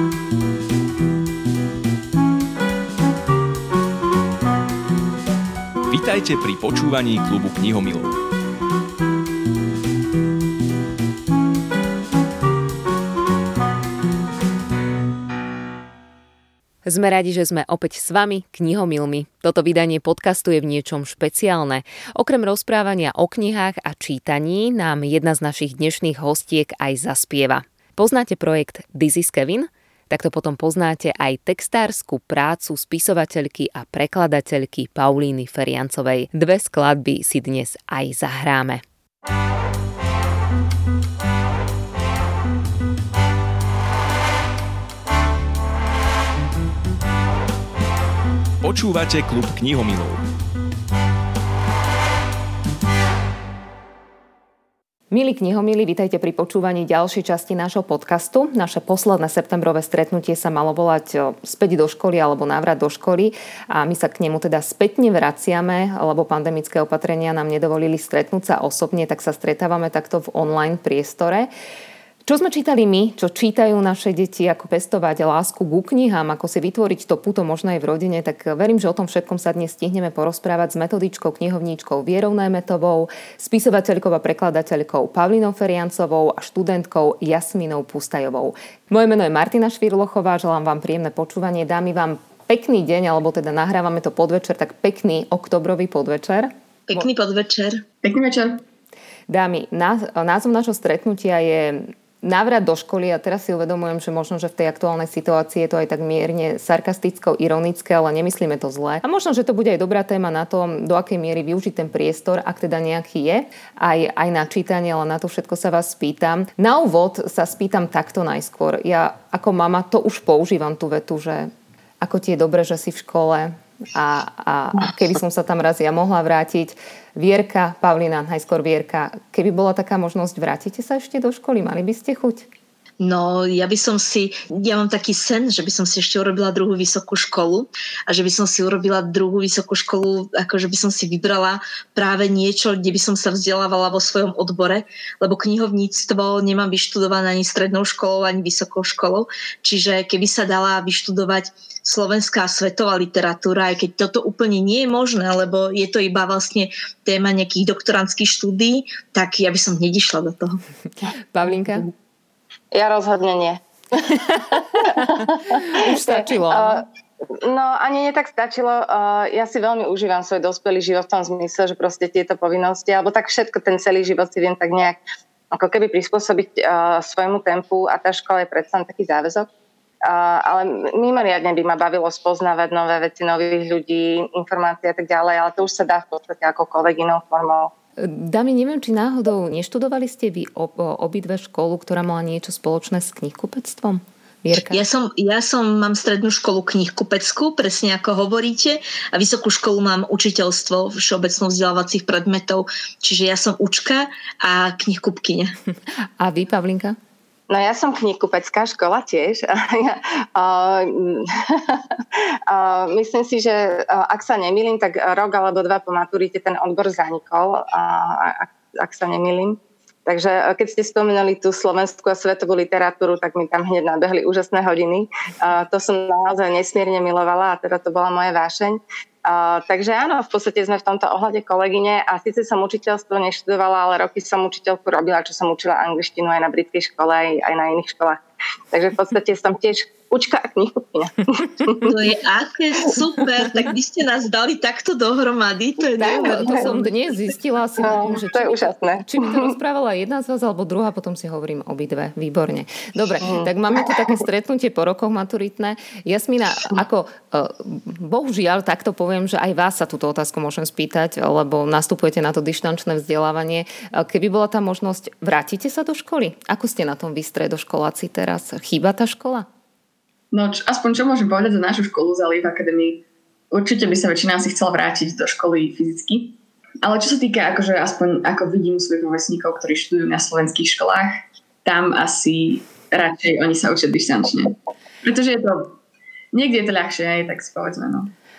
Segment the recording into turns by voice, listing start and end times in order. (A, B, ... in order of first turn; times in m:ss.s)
0:05.9-0:08.2 A
0:16.8-0:38.8 B
0:48.6-0:50.2 A
0:55.1-1:11.5 B
1:12.2-1:37.0 B
1:36.9-1:37.8 C
1:38.0-1:38.6 D
1:39.3-2:12.5 B
2:13.0-2:40.6 C
2:41.3-2:41.9 B
2:42.7-2:55.0 E
2:45.0-2:46.8 B
2:55.5-2:59.5 E
3:00.0-3:07.7 E
3:08.0-3:14.8 B
3:14.7-3:25.5 C
3:26.2-3:27.0 B
3:27.5-4:02.0 E
4:01.8-4:06.8 C
4:06.0-4:29.5 B
4:06.2-4:06.8 E
4:07.8-4:09.5 E
4:13.2-4:14.2 E
4:30.3-4:45.8 D
4:46.3-4:48.1 D